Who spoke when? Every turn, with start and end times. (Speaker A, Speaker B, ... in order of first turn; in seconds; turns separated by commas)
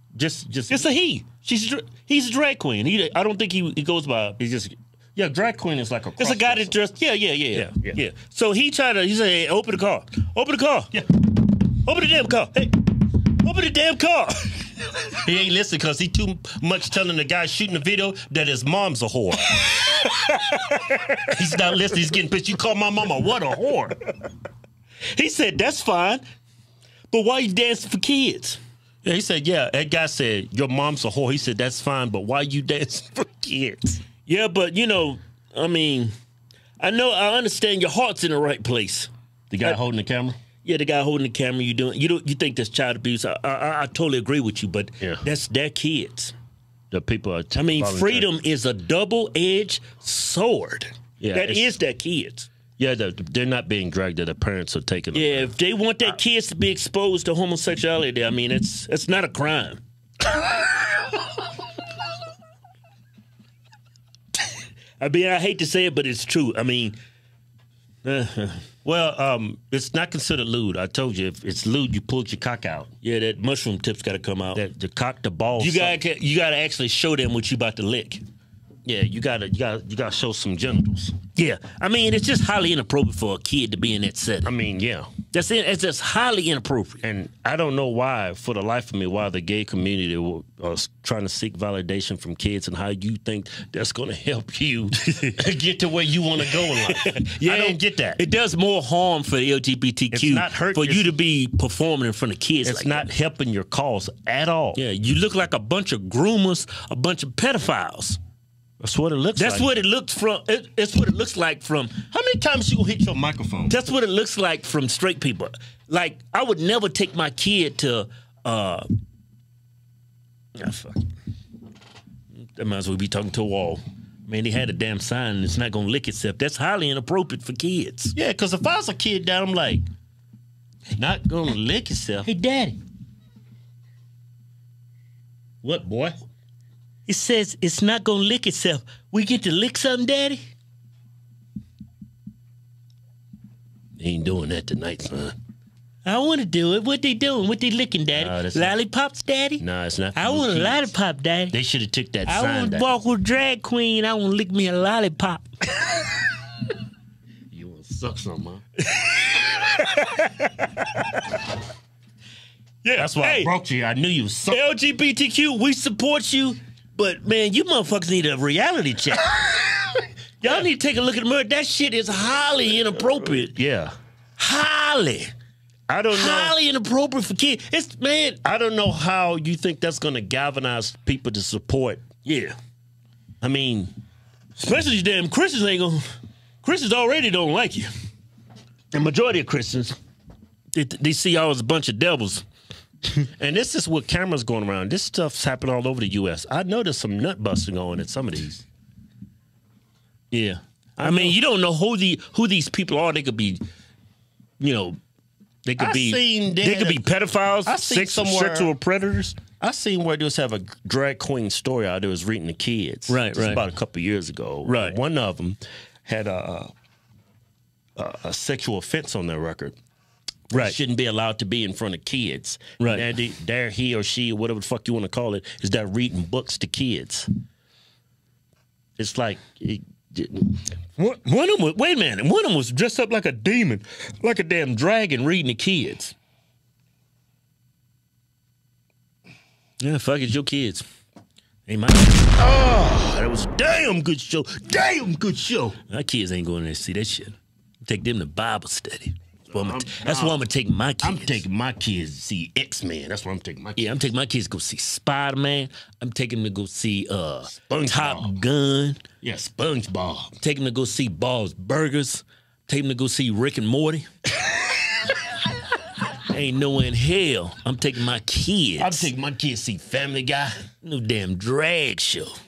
Speaker A: 0.1-0.9, Speaker B: 0.7-4.8, Speaker A: 5.2-6.7, Speaker B: 6.2-11.1, Speaker A: 7.5-8.0, Speaker B: 11.7-12.9, Speaker B: 13.4-14.9, Speaker A: 15.2-19.6, Speaker B: 19.6-21.2, Speaker A: 21.2-24.0, Speaker B: 25.1-26.2, Speaker B: 27.1-28.6, Speaker A: 29.0-34.0, Speaker B: 34.3-36.1, Speaker B: 36.8-39.1, Speaker A: 39.5-40.4, Speaker B: 40.6-46.3, Speaker A: 46.9-48.3, Speaker B: 47.5-52.5, Speaker A: 51.2-51.7, Speaker A: 52.8-55.5, Speaker B: 55.1-59.8, Speaker B: 65.0-67.0, Speaker B: 68.0-68.6, Speaker A: 68.8-72.9, Speaker B: 73.0-74.6, Speaker A: 74.5-76.0, Speaker B: 75.6-78.2, Speaker A: 78.8-81.2, Speaker B: 81.3-84.5, Speaker A: 84.5-85.1, Speaker B: 85.3-87.0, Speaker A: 87.0-98.2, Speaker B: 95.0-95.3, Speaker B: 96.5-103.1, Speaker A: 100.1-101.2, Speaker A: 102.6-104.8, Speaker B: 104.8-108.2, Speaker A: 108.8-109.7, Speaker B: 109.4-112.0, Speaker A: 112.1-113.8, Speaker B: 113.7-118.9, Speaker B: 120.6-121.1, Speaker B: 122.5-128.1, Speaker A: 128.2-129.8, Speaker A: 130.9-132.3, Speaker B: 132.2-132.8, Speaker A: 135.6-136.2, Speaker B: 137.1-140.4, Speaker A: 144.0-145.3, Speaker B: 146.1-149.6, Speaker A: 148.1-148.8, Speaker A: 149.6-150.9, Speaker B: 150.2-151.5, Speaker A: 151.5-152.9, Speaker B: 152.3-156.1, Speaker A: 157.5-158.6, Speaker B: 158.9-161.4, Speaker B: 162.8-163.5, Speaker A: 163.0-164.6, Speaker B: 164.5-169.7, Speaker B: 170.4-173.6, Speaker A: 173.3-173.9, Speaker B: 174.4-175.3, Speaker A: 175.9-176.5, Speaker B: 176.1-178.4, Speaker A: 178.4-182.0, Speaker B: 182.2-182.6, Speaker A: 183.4-183.9, Speaker B: 184.6-186.1, Speaker B: 186.6-187.9, Speaker B: 188.9-190.0, Speaker B: 190.7-192.4, Speaker A: 193.4-198.7, Speaker B: 200.3-203.6, Speaker A: 201.0-201.4, Speaker B: 204.6-205.0, Speaker B: 205.7-209.4, Speaker A: 205.8-207.0, Speaker A: 207.7-208.7, Speaker A: 209.6-216.7, Speaker B: 213.1-213.6, Speaker B: 214.7-215.0, Speaker A: 218.0-219.8, Speaker A: 220.5-227.3, Speaker B: 222.8-223.1, Speaker A: 229.0-230.6, Speaker B: 231.0-236.2, Speaker B: 239.8-240.9, Speaker B: 241.7-242.4, Speaker A: 242.4-245.8, Speaker B: 245.9-251.4, Speaker A: 249.5-250.4, Speaker A: 251.0-253.9, Speaker B: 253.8-259.0, Speaker A: 257.5-258.3, Speaker A: 259.2-260.4, Speaker B: 260.4-264.1, Speaker B: 266.3-269.1, Speaker A: 268.8-270.6, Speaker B: 270.8-272.4